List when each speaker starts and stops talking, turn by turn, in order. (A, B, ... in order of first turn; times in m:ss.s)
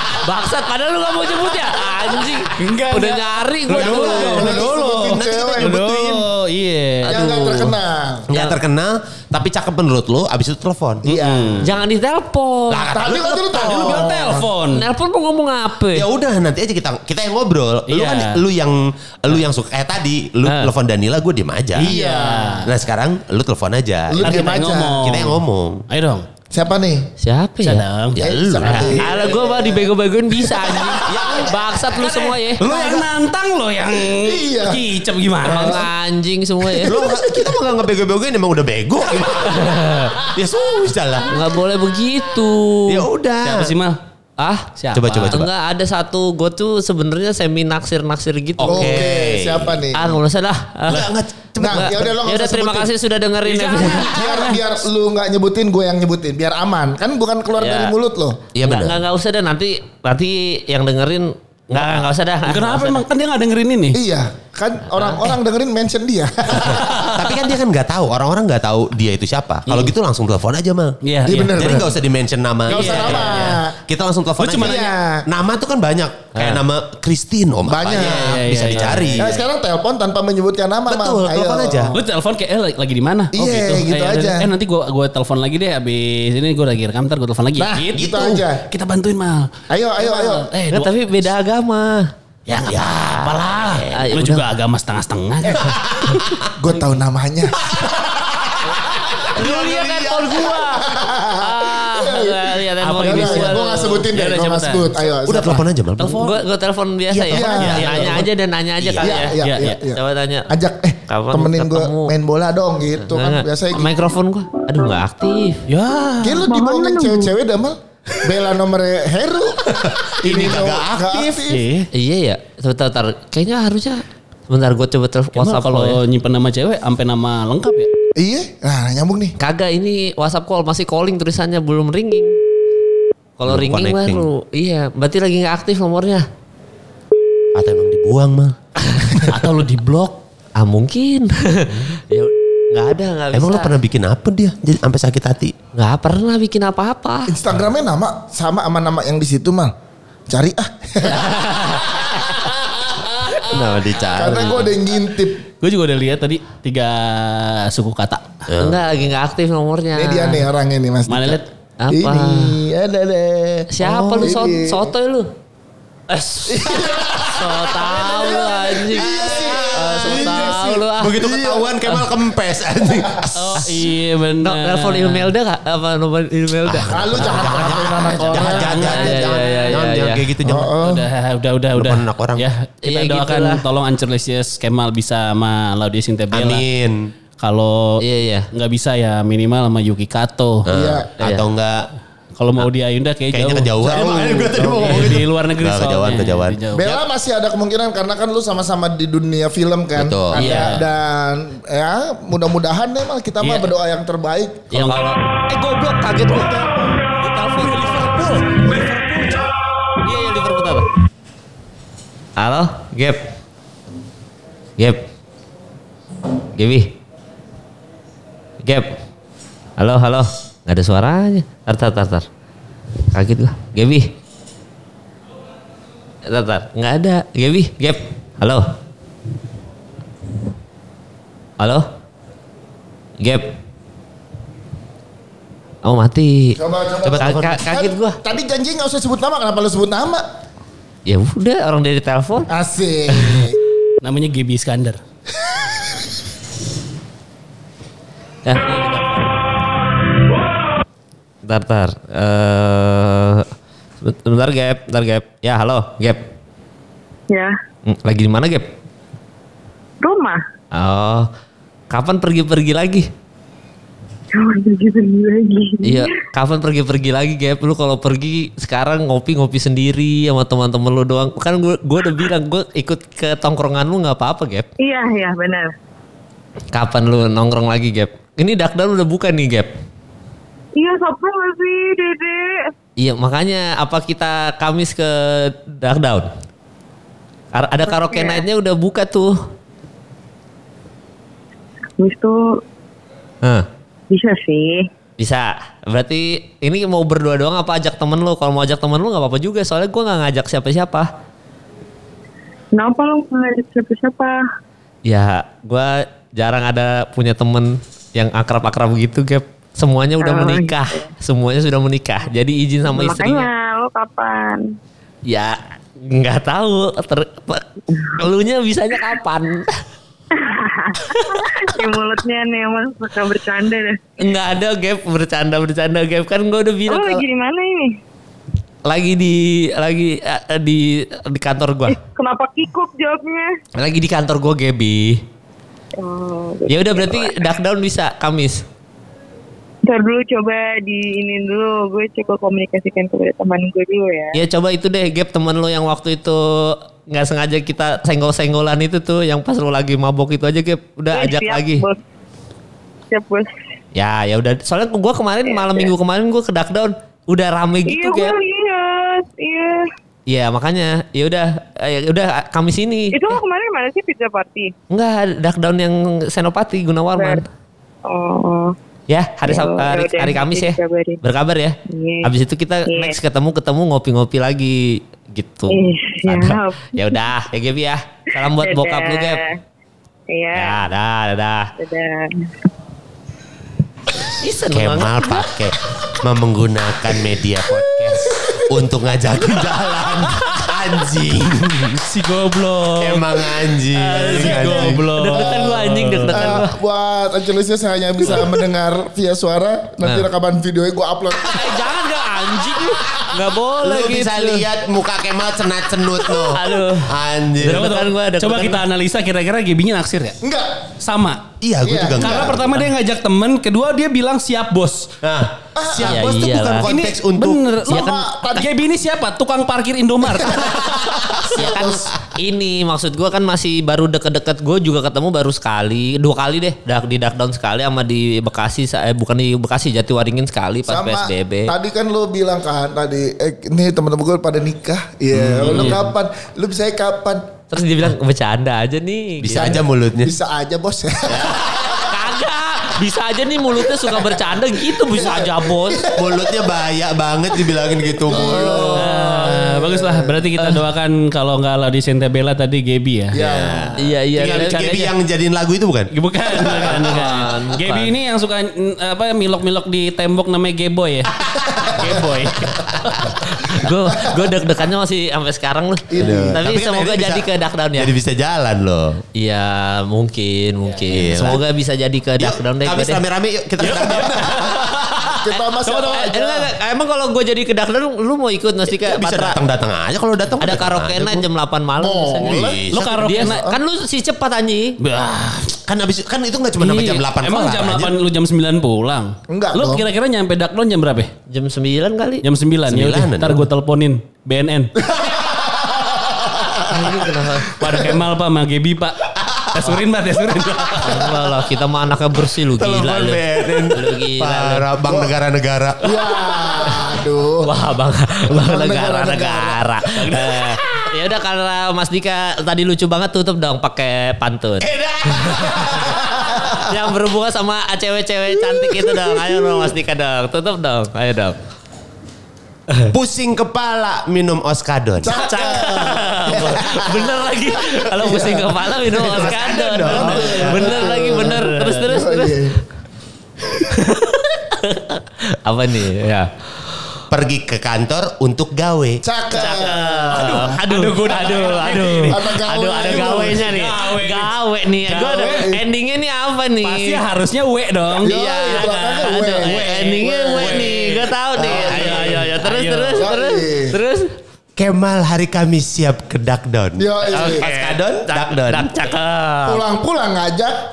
0:00.1-0:04.5 A
0:02.5-0:07.3 B
0:03.7-0:06.3 C
0:04.1-0:05.8 D
0:07.0-0:07.7 A
0:07.1-0:08.3 D
0:08.3-0:11.2 C
0:11.0-0:11.6 D
0:11.1-0:11.7 B
0:11.6-0:13.0 A
0:12.7-0:14.0 C
0:12.9-0:14.5 D
0:13.6-0:14.9 B
0:14.7-0:16.1 A
0:15.9-0:21.9 C
0:17.9-0:18.4 B
0:20.4-0:20.7 A
0:21.8-0:22.6 D
0:21.8-0:22.7 B
0:22.6-0:25.9 C
0:24.1-0:25.0 D
0:24.2-0:26.3 B
0:26.5-0:27.0 D
0:27.2-0:27.9 A
0:27.6-0:28.2 B
0:28.1-0:29.1 C
0:28.2-0:29.9 D
0:28.7-0:32.6 A
0:30.4-0:31.1 D
0:31.0-0:33.1 C
0:32.6-0:35.9 B
0:34.1-0:34.8 D
0:35.4-0:36.9 A
0:35.5-0:35.8 D
0:36.7-0:37.5 D
0:36.8-0:41.5 C
0:39.6-0:40.1 A
0:41.3-0:43.1 A
0:42.9-0:43.7 C
0:43.4-0:44.0 B
0:44.4-0:44.7 A
0:44.8-0:45.4 B
0:44.9-0:45.5 C
0:45.3-0:49.0 A
0:48.6-0:49.8 C
0:48.6-0:50.2 D
0:49.9-0:54.1 A
0:50.9-0:52.1 C
0:51.6-0:52.9 D
0:53.4-0:54.8 B
0:54.1-0:58.4 D
0:57.6-0:57.9 A
0:58.5-0:59.0 C
0:58.6-1:03.0 A
1:02.4-1:04.0 B
1:03.9-1:06.9 D
1:04.9-1:05.3 A
1:06.6-1:19.3 C
1:06.6-1:07.3 B
1:11.0-1:11.7 B
1:11.2-1:11.9 D
1:12.7-1:13.8 D
1:12.7-1:13.6 B
1:14.4-1:14.9 B
1:14.6-1:15.2 D
1:17.6-1:21.9 D
1:17.9-1:19.4 B
1:20.9-1:21.9 C
1:21.9-1:30.9 B
1:23.3-1:24.5 D
1:27.6-1:28.6 D
1:28.0-1:28.4 C
1:29.7-1:30.5 D
1:30.7-1:32.1 A
1:32.5-1:36.2 B
1:32.5-1:34.1 C
1:33.9-1:34.4 A
1:35.6-1:36.4 C
1:36.5-1:38.0 D
1:37.5-1:40.6 C
1:39.4-1:43.9 A
1:40.8-1:45.6 D
1:42.8-1:44.9 B
1:45.2-1:46.4 C
1:46.0-1:50.5 A
1:46.0-1:46.3 B
1:47.1-1:48.2 C
1:47.3-1:48.2 D
1:47.7-1:48.2 B
1:48.8-1:49.3 C
1:49.0-1:53.9 D
1:49.4-1:49.8 B
1:51.1-1:52.1 A
1:53.0-1:55.6 A
1:55.7-1:56.4 B
1:56.2-2:01.6 D
1:56.5-1:57.3 E
1:59.7-2:01.4 C
2:01.5-2:01.9 B
2:01.9-2:06.0 A
2:05.4-2:07.9 B
2:08.2-2:09.4 D
2:09.4-2:12.4 A
2:13.4-2:16.2 A
2:13.4-2:14.3 C
2:17.5-2:18.6 C
2:19.2-2:20.2 B
2:20.6-2:23.8 A
2:23.3-2:25.5 C
2:25.8-2:27.3 A
2:27.3-2:29.7 D
2:30.3-2:31.4 D
2:31.0-2:32.5 A
2:33.4-2:34.7 A
2:33.5-2:34.7 C
2:34.1-2:35.4 D
2:35.6-2:38.5 B
2:38.5-2:38.8 C
2:38.6-2:40.4 A
2:40.0-2:44.9 D
2:41.1-2:41.4 B
2:41.8-2:42.6 A
2:43.7-2:45.3 A
2:43.8-2:44.2 B
2:46.1-2:51.2 A
2:46.4-2:51.8 D
2:46.9-2:47.2 C
2:48.7-2:53.6 C
2:53.3-2:55.3 B
2:54.4-2:57.5 A
2:56.6-3:00.7 C
2:56.9-2:58.9 D
2:58.5-3:00.2 B
2:58.8-3:00.1 A
3:00.4-3:01.1 D
3:00.8-3:06.6 B
3:01.7-3:02.5 C
3:02.8-3:03.6 A
3:06.3-3:07.1 C
3:07.4-3:10.6 B
3:08.0-3:08.5 A
3:10.7-3:11.9 C
3:10.7-3:11.1 D
3:11.2-3:11.5 A
3:12.4-3:13.7 B
3:13.3-3:16.6 C
3:13.8-3:15.1 D
3:14.6-3:17.0 B
3:16.8-3:24.6 D
3:20.0-3:20.8 C
3:20.4-3:20.8 B
3:23.4-3:23.7 B
3:24.7-3:25.1 B
3:24.7-3:29.3 A
3:27.7-3:29.5 B
3:30.0-3:30.9 A
3:32.4-3:33.3 A
3:34.8-3:35.1 A
3:36.6-3:36.9 A
3:38.6-3:39.0 A
3:39.8-3:42.3 A
3:43.1-3:44.1 A
3:46.2-3:48.7 A
3:51.6-3:51.9 A
3:53.2-3:53.5 A
3:55.8-3:56.6 A
3:56.6-4:00.2 D
3:57.0-3:57.6 C
3:57.1-3:58.2 A
4:01.1-4:02.5 A
4:02.5-4:03.6 D
4:03.2-4:03.4 A
4:04.0-4:05.0 B
4:05.4-4:05.7 D
4:08.4-4:09.5 A
4:11.4-4:13.5 A
4:14.0-4:16.3 A
4:17.3-4:17.6 E
4:17.8-4:18.7 A
4:20.0-4:20.4 E
4:20.7-4:21.3 A
4:21.9-4:23.1 A
4:24.3-4:26.3 E
4:25.8-4:34.7 A
4:34.8-4:35.7 E
4:36.7-4:39.7 A
4:40.8-4:42.7 E
4:43.0-4:46.3 A
4:47.5-4:49.4 A
4:47.9-4:48.4 E
4:52.0-4:52.6 E
4:53.4-4:53.7 A
4:54.1-4:54.9 E
4:55.2-5:01.1 A
5:02.8-5:04.4 E
5:05.0-5:13.5 A
5:10.2-5:11.1 E
5:12.9-5:14.7 E
5:15.2-5:19.8 A
5:20.4-5:24.0 E
5:24.2-5:27.2 A
5:26.9-5:28.0 E
5:28.8-5:32.0 A
5:32.0-5:33.5 E
5:33.8-5:35.2 A
5:36.0-5:37.5 E
5:36.7-5:38.6 A
5:39.8-5:44.4 E
5:44.4-5:51.8 A
5:51.1-5:52.0 E
5:53.1-5:53.5 E
5:53.9-5:58.4 A
5:55.4-5:55.9 E
5:57.8-5:59.9 E
6:00.3-6:03.4 A
6:03.1-6:04.7 E
6:04.9-6:07.4 A
6:07.1-6:07.4 E
6:08.1-6:08.8 E
6:09.1-6:19.4 A
6:09.4-6:11.2 E
6:11.9-6:12.3 E
6:12.9-6:13.2 E
6:15.7-6:17.3 E
6:18.4-6:19.6 E
6:20.3-6:20.8 E
6:20.5-6:21.7 A
6:21.8-6:22.5 E
6:24.2-6:25.6 A
6:24.6-6:32.1 C
6:32.0-6:33.4 B
6:33.0-6:35.1 C
6:33.9-6:36.7 A
6:34.1-6:36.6 B
6:36.3-6:41.9 D
6:41.4-6:44.7 A
6:43.8-6:47.9 C
6:46.3-6:47.1 A
6:47.6-6:50.4 B
6:47.7-6:48.8 A
6:50.4-6:50.7 D
6:51.0-6:51.5 B
6:51.6-6:52.9 C
6:51.8-6:52.5 D
6:52.2-6:55.1 B
6:55.2-6:57.6 C
6:55.8-6:56.2 D
6:56.0-6:56.9 A
6:56.8-7:01.9 B
6:57.9-6:58.7 D
7:00.6-7:02.0 D
7:01.5-7:11.7 A
7:10.9-7:17.5 D
7:15.3-7:16.0 C
7:15.6-7:16.0 A
7:17.7-7:19.8 A
7:19.4-7:20.3 C
7:19.5-7:22.1 D
7:21.3-7:26.0 A
7:24.0-7:24.3 D
7:25.1-7:26.8 D
7:26.1-7:29.1 C
7:27.7-7:30.4 D
7:28.4-7:29.5 A
7:28.9-7:33.4 B
7:33.3-7:33.9 D
7:33.4-7:37.2 C
7:34.0-7:35.1 A
7:36.1-7:43.2 B
7:36.8-7:38.1 A
7:41.5-7:42.3 C
7:42.8-7:43.2 C
7:43.3-7:48.1 A
7:46.1-7:47.4 D
7:46.2-7:47.4 C
7:48.0-7:49.2 C
7:49.4-7:53.2 A
7:51.1-7:51.6 C
7:52.4-7:54.9 C
7:53.8-7:56.3 B
7:55.3-7:56.7 D
7:56.0-7:59.6 A
7:58.8-8:01.5 C
8:00.6-8:05.0 A
8:02.0-8:02.8 D
8:02.4-8:03.1 C
8:02.9-8:03.6 B
8:03.4-8:03.8 D
8:05.0-8:05.8 B
8:05.8-8:08.1 C
8:06.8-8:11.3 B
8:09.5-8:10.1 D
8:11.5-8:12.4 A
8:12.4-8:14.9 B
8:12.9-8:13.6 C
8:15.1-8:17.1 D
8:16.8-8:17.8 A
8:17.8-8:21.3 B
8:17.8-8:18.2 D
8:21.0-8:24.8 A
8:22.7-8:26.0 C
8:25.1-8:25.3 D
8:26.0-8:27.7 D
8:27.6-8:36.1 A
8:28.5-8:29.8 D
8:34.8-8:36.8 C
8:36.2-8:36.8 D
8:36.8-8:41.6 A
8:38.9-8:39.8 D
8:42.9-8:43.1 A
8:43.1-8:46.0 C
8:45.2-8:47.5 D
8:45.3-8:52.6 A
8:48.2-8:52.8 D
8:49.2-8:51.2 C
8:53.8-8:56.5 A
8:57.3-8:59.2 C
8:59.2-9:00.8 D
8:59.5-9:07.2 A
9:00.3-9:05.7 B
9:02.3-9:03.6 D
9:05.2-9:05.8 D
9:06.8-9:13.3 B
9:08.2-9:14.3 A
9:08.2-9:11.0 D
9:11.5-9:12.4 D
9:13.1-9:14.0 D
9:14.8-9:19.0 C
9:17.0-9:17.7 D
9:17.3-9:19.8 A
9:19.7-9:20.8 D